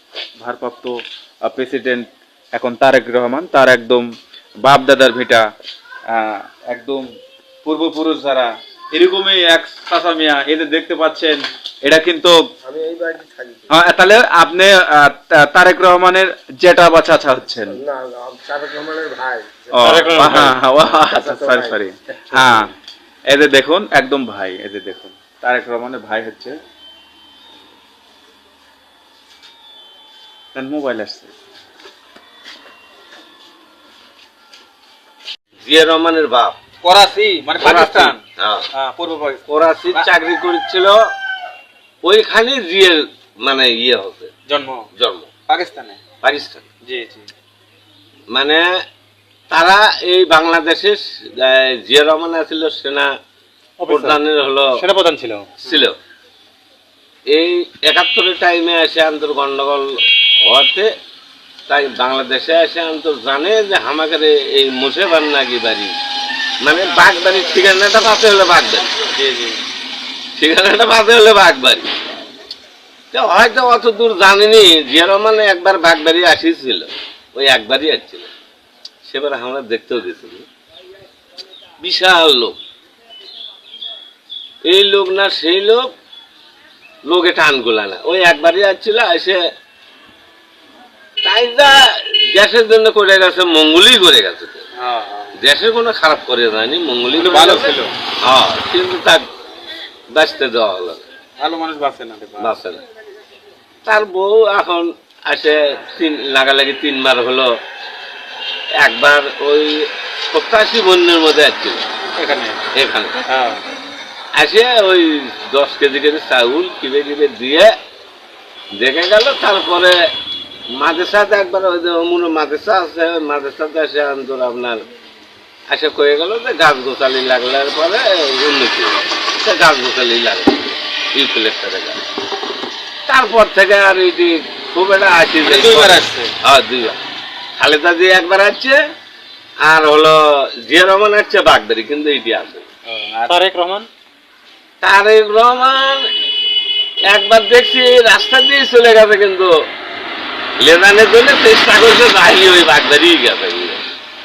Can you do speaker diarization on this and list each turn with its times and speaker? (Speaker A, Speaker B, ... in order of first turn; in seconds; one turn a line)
Speaker A: 0.4-4.1
Speaker A: 4.6-5.4
Speaker A: 6.1-7.1
Speaker A: 7.6-12.4
Speaker B: 12.6-13.8
Speaker A: 13.7-17.8
Speaker B: 17.7-22.7
Speaker A: 19.7-22.7
Speaker C: 19.8-20.6
Speaker A: 23.3-26.6
Speaker A: 30.5-31.3
Speaker D: 35.6-36.6
Speaker A: 36.8-38.2
Speaker D: 37.6-38.6
Speaker A: 38.7-40.1
Speaker D: 39.5-41.1
Speaker D: 42.0-44.3
Speaker A: 44.5-44.9
Speaker D: 45.0-45.3
Speaker A: 45.5-46.0
Speaker D: 46.2-46.6
Speaker A: 46.9-47.3
Speaker D: 48.3-48.7
Speaker D: 49.5-53.1
Speaker C: 53.8-54.2
Speaker D: 53.9-54.8
Speaker C: 54.8-55.5
Speaker D: 55.6-56.0
Speaker D: 57.3-60.9
Speaker D: 61.7-65.9
Speaker D: 66.6-69.0
Speaker A: 69.1-69.6
Speaker D: 70.4-71.9
Speaker D: 73.1-78.3
Speaker D: 79.1-80.4
Speaker D: 81.8-82.6
Speaker D: 84.7-85.9
Speaker D: 87.1-89.4
Speaker D: 91.2-91.8
Speaker D: 92.3-94.6
Speaker A: 94.8-95.3
Speaker D: 95.4-99.2
Speaker A: 97.2-97.9
Speaker D: 100.1-101.0
Speaker A: 101.4-102.6
Speaker D: 102.4-102.8
Speaker D: 103.8-107.5
Speaker D: 108.8-111.8
Speaker A: 112.2-112.6
Speaker D: 112.7-113.2
Speaker A: 113.3-113.6
Speaker D: 114.4-117.7
Speaker D: 118.8-120.0
Speaker D: 120.8-124.8
Speaker D: 125.7-132.0
Speaker D: 133.1-137.0
Speaker A: 135.4-136.3
Speaker D: 137.6-138.8
Speaker D: 139.6-142.6
Speaker A: 142.9-143.3
Speaker C: 143.3-143.9
Speaker D: 144.8-146.1
Speaker D: 147.1-149.5
Speaker D: 150.6-153.8